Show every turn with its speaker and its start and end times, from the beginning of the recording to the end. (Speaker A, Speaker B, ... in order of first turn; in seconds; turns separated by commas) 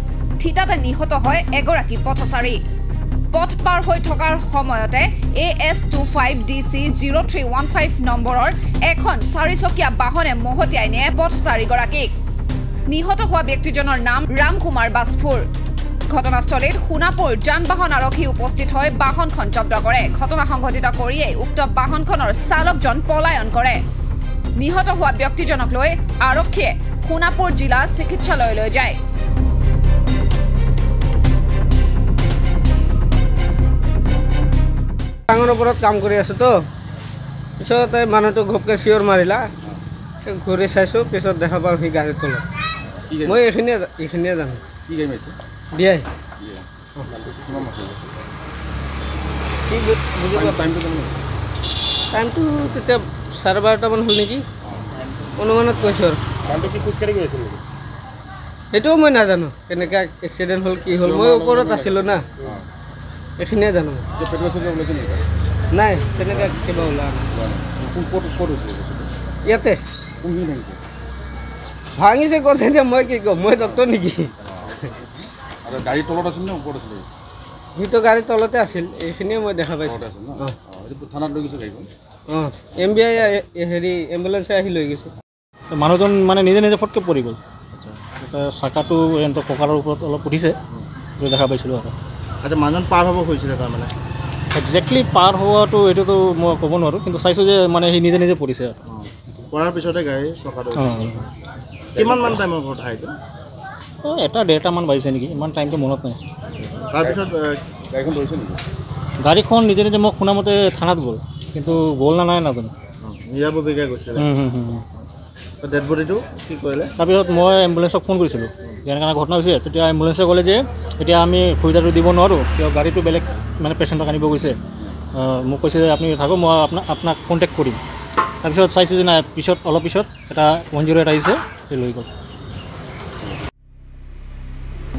Speaker A: 0.4-2.6, Speaker A: 3.3-12.1, Speaker A: 12.9-15.4, Speaker A: 16.1-23.8, Speaker A: 24.6-29.0, Speaker B: 35.3-36.7, Speaker B: 37.6-39.5, Speaker B: 40.2-42.4, Speaker C: 42.9-43.4, Speaker B: 43.2-44.6, Speaker C: 44.9-45.4, Speaker B: 45.7-46.1, Speaker C: 46.4-48.1, Speaker B: 49.6-50.6, Speaker C: 50.3-51.2, Speaker B: 52.1-54.4, Speaker B: 55.4-56.2, Speaker C: 56.5-57.6, Speaker B: 58.7-62.2, Speaker C: 61.0-61.7, Speaker C: 62.4-62.7, Speaker B: 63.4-64.1, Speaker C: 64.2-65.2, Speaker B: 65.7-67.3, Speaker C: 66.3-66.6, Speaker C: 67.3-69.1, Speaker B: 69.5-69.8, Speaker C: 70.2-70.8, Speaker B: 72.0-74.3, Speaker C: 74.5-74.8, Speaker C: 75.6-77.1, Speaker B: 77.8-80.5, Speaker C: 79.8-81.9, Speaker B: 82.3-85.1, Speaker D: 85.7-87.4, Speaker E: 87.8-88.1, Speaker D: 88.1-90.6, Speaker D: 91.2-91.9, Speaker E: 92.4-93.9, Speaker D: 94.5-98.7, Speaker E: 98.8-101.1, Speaker D: 100.8-101.2, Speaker C: 101.9-102.4, Speaker E: 101.9-103.2, Speaker D: 104.0-106.2, Speaker E: 106.7-107.6, Speaker C: 107.0-107.3, Speaker C: 107.9-108.6, Speaker D: 109.2-112.7, Speaker E: 113.0-114.3, Speaker D: 114.2-114.8, Speaker E: 115.6-116.9, Speaker D: 117.0-124.6, Speaker D: 125.1-127.8, Speaker D: 128.4-132.1